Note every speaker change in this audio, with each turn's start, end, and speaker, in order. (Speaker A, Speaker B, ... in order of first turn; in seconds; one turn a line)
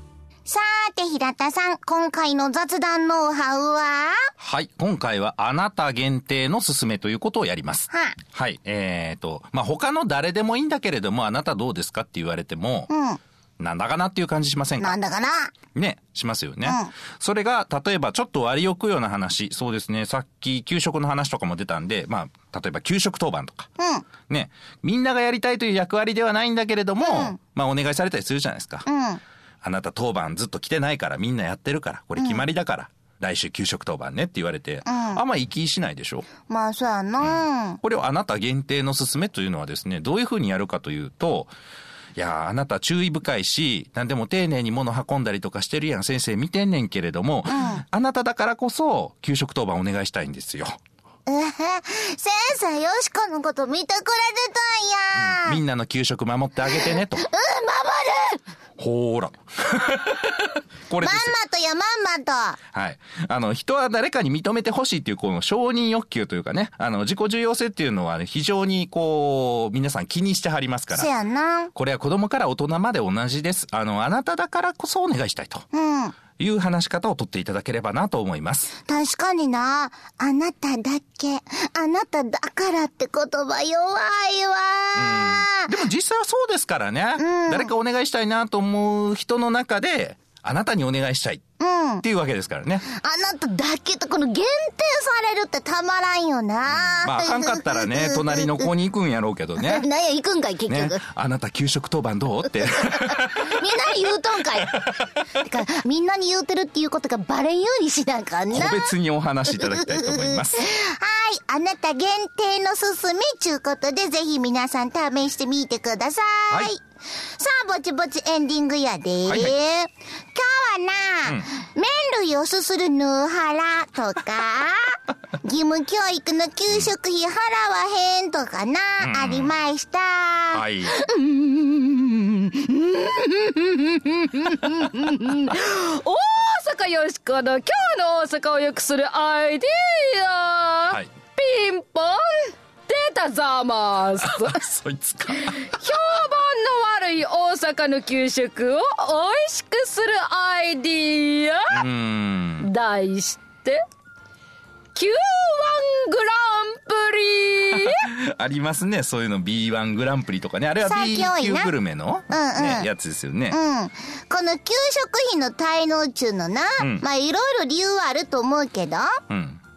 Speaker A: 0.5-4.3
Speaker B: 4.4-12.9
Speaker A: 7.9-8.2
Speaker A: 12.9-13.2
Speaker B: 13.6-15.0
Speaker A: 14.8-15.5
Speaker B: 15.7-23.7
Speaker A: 16.6-16.9
Speaker A: 23.8-24.0
Speaker B: 24.3-28.9
Speaker A: 27.0-27.4
Speaker A: 28.9-29.2
Speaker B: 29.6-36.3
Speaker A: 32.2-32.4
Speaker A: 34.9-35.2
Speaker A: 36.5-37.8
Speaker B: 37.2-41.5
Speaker B: 42.1-50.8
Speaker A: 47.5-47.8
Speaker A: 51.3-55.6
Speaker B: 55.1-57.2
Speaker A: 56.7-58.4
Speaker B: 58.8-61.3
Speaker A: 61.0-62.6
Speaker B: 62.7-71.1
Speaker A: 70.9-71.7
Speaker B: 71.7-75.7
Speaker A: 75.7-76.2
Speaker B: 76.4-78.7
Speaker A: 78.8-85.7
Speaker B: 85.0-91.4
Speaker A: 87.2-87.7
Speaker A: 91.6-92.0
Speaker B: 92.0-92.8
Speaker A: 92.9-98.7
Speaker B: 96.7-99.8
Speaker A: 99.6-101.0
Speaker B: 100.7-103.6
Speaker A: 103.0-108.9
Speaker B: 108.5-110.6
Speaker A: 109.5-116.8
Speaker A: 117.4-133.7
Speaker B: 119.3-119.5
Speaker B: 129.0-129.5
Speaker B: 130.5-130.9
Speaker C: 134.5-144.6
Speaker B: 144.2-145.7
Speaker C: 145.4-151.8
Speaker B: 151.7-152.7
Speaker C: 152.6-153.8
Speaker C: 154.9-158.0
Speaker B: 157.7-163.6
Speaker A: 160.8-161.7
Speaker A: 162.3-162.9
Speaker A: 163.5-169.2
Speaker B: 166.8-167.0
Speaker B: 169.3-169.6